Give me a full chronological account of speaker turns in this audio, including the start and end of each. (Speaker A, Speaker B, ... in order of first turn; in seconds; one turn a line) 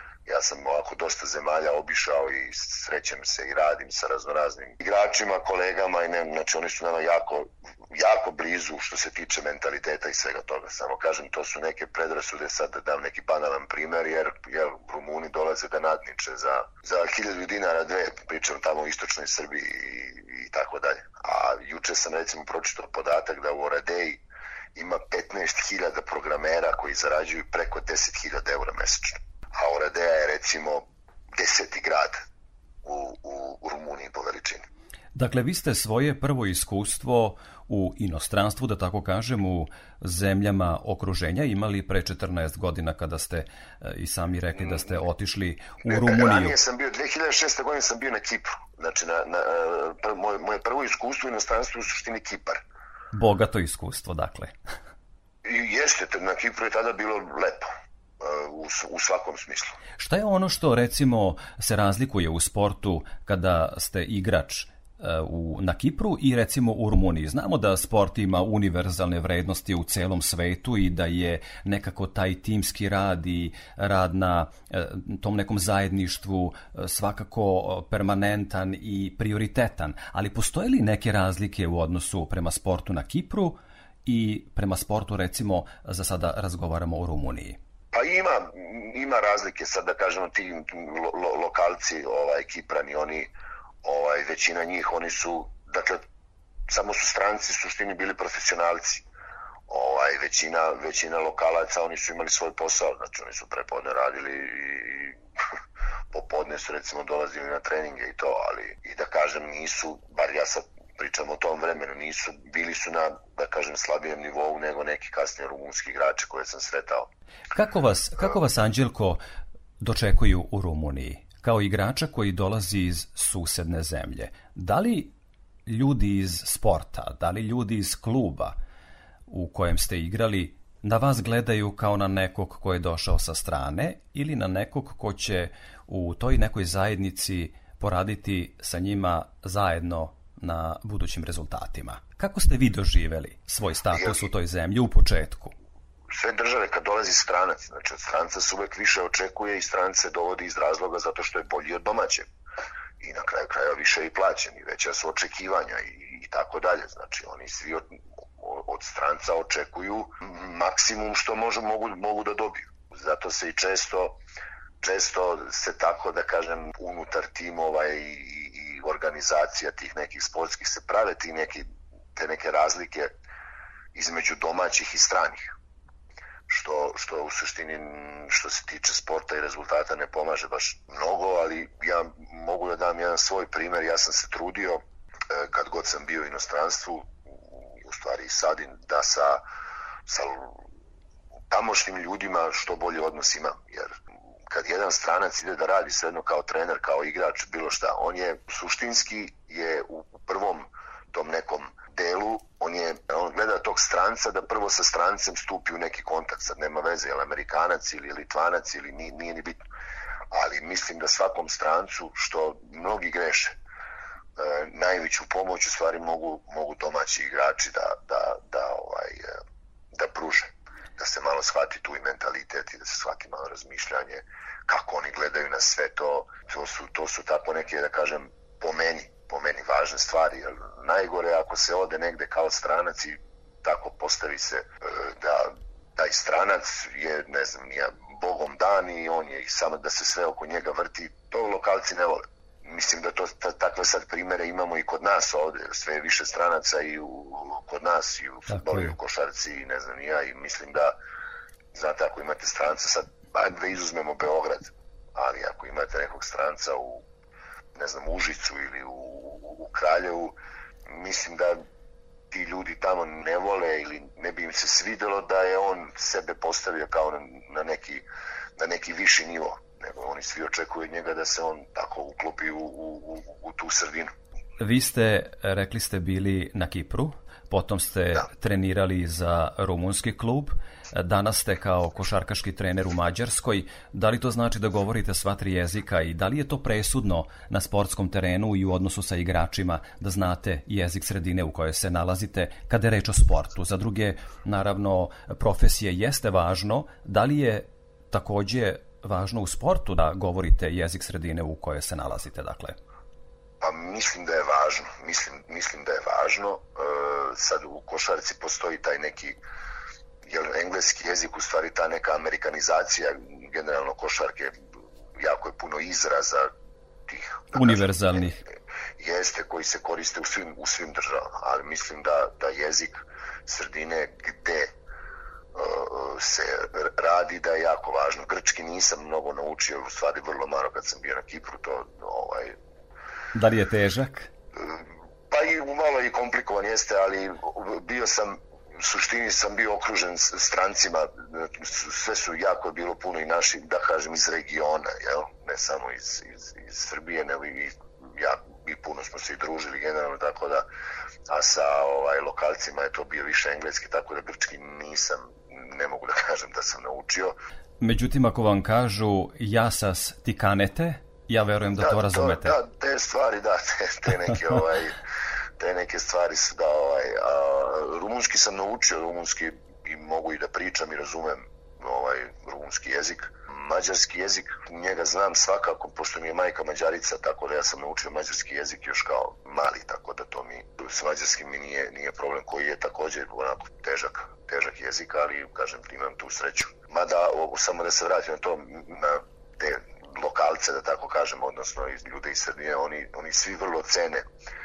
Speaker A: 0.2-24.2
Speaker A: 24.7-32.2
Speaker A: 32.8-34.6
Speaker B: 35.1-46.5
Speaker A: 44.6-44.9
Speaker A: 45.9-52.6
Speaker B: 53.1-54.5
Speaker A: 55.4-59.8
Speaker B: 60.0-87.6
Speaker A: 87.9-93.3
Speaker A: 93.8-96.0
Speaker A: 96.7-99.0
Speaker A: 99.7-105.2
Speaker A: 106.1-117.1
Speaker B: 117.5-119.2
Speaker B: 119.8-125.1
Speaker B: 125.7-128.6
Speaker B: 129.3-145.5
Speaker A: 143.9-144.3
Speaker A: 146.1-152.3
Speaker A: 153.0-164.2
Speaker A: 164.8-173.1
Speaker A: 173.9-175.5
Speaker A: 176.5-189.4
Speaker A: 190.1-190.6
Speaker A: 191.5-209.6
Speaker A: 210.3-213.5
Speaker A: 214.4-219.4
Speaker A: 219.9-250.9
Speaker B: 248.5-248.9
Speaker A: 251.7-257.0
Speaker A: 257.7-260.3
Speaker A: 260.9-261.6
Speaker A: 262.3-268.0
Speaker A: 268.6-274.1
Speaker B: 274.6-302.8
Speaker A: 303.6-309.4
Speaker A: 310.2-314.5
Speaker A: 315.2-316.5
Speaker A: 317.1-317.9
Speaker B: 317.5-318.4
Speaker A: 319.0-324.7
Speaker A: 325.5-332.5
Speaker B: 333.3-334.3
Speaker A: 334.6-350.6
Speaker A: 351.3-357.4
Speaker B: 357.8-362.6
Speaker A: 361.8-365.0
Speaker A: 365.6-394.2